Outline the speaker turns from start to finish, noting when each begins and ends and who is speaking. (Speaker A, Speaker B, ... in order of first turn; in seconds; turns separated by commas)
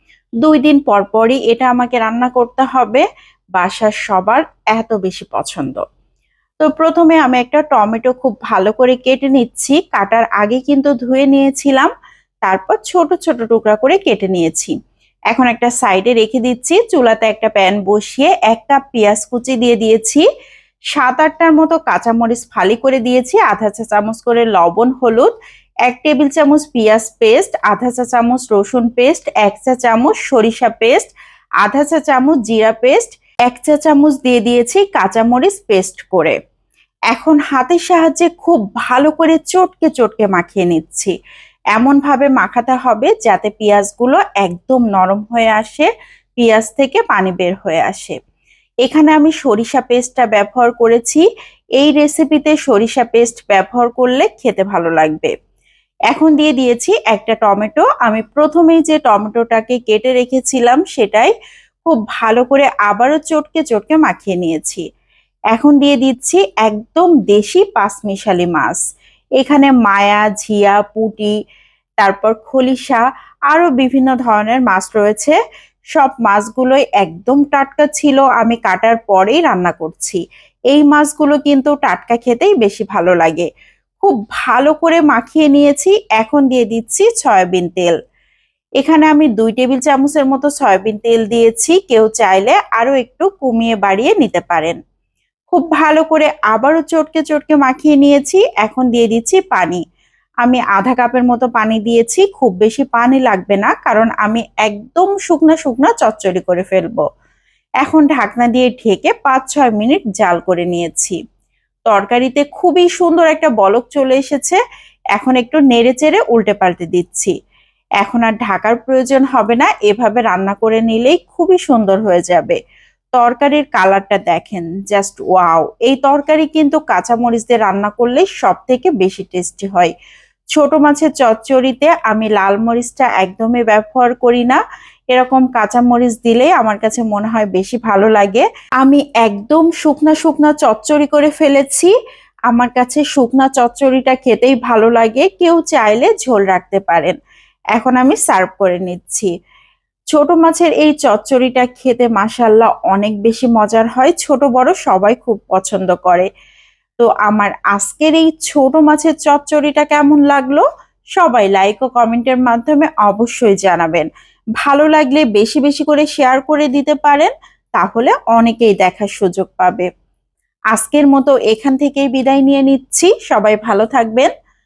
Speaker A: 0.4-3.0, Speaker A: 3.6-5.8, Speaker A: 6.6-11.9, Speaker A: 12.4-14.7, Speaker A: 15.3-20.2, Speaker A: 20.9-25.3, Speaker A: 25.9-31.1, Speaker A: 31.6-36.4, Speaker A: 37.1-41.1, Speaker A: 41.7-48.1, Speaker A: 48.8-51.2, Speaker A: 51.8-55.3, Speaker A: 56.1-61.3, Speaker A: 61.9-64.8, Speaker A: 65.5-68.8, Speaker A: 69.4-71.3, Speaker A: 72.0-75.4, Speaker A: 75.9-80.2, Speaker A: 80.7-83.5, Speaker A: 84.0-88.0, Speaker A: 88.8-94.8, Speaker A: 95.5-99.8, Speaker A: 100.4-107.0, Speaker A: 107.8-111.2, Speaker A: 111.9-114.6, Speaker A: 115.1-117.3, Speaker A: 118.0-122.6, Speaker A: 123.2-129.9, Speaker A: 130.5-134.6, Speaker A: 135.1-141.9, Speaker A: 142.5-147.2, Speaker A: 147.7-149.3, Speaker A: 150.1-156.3, Speaker A: 157.0-160.6, Speaker A: 161.2-164.1, Speaker A: 164.6-169.9, Speaker A: 170.7-174.3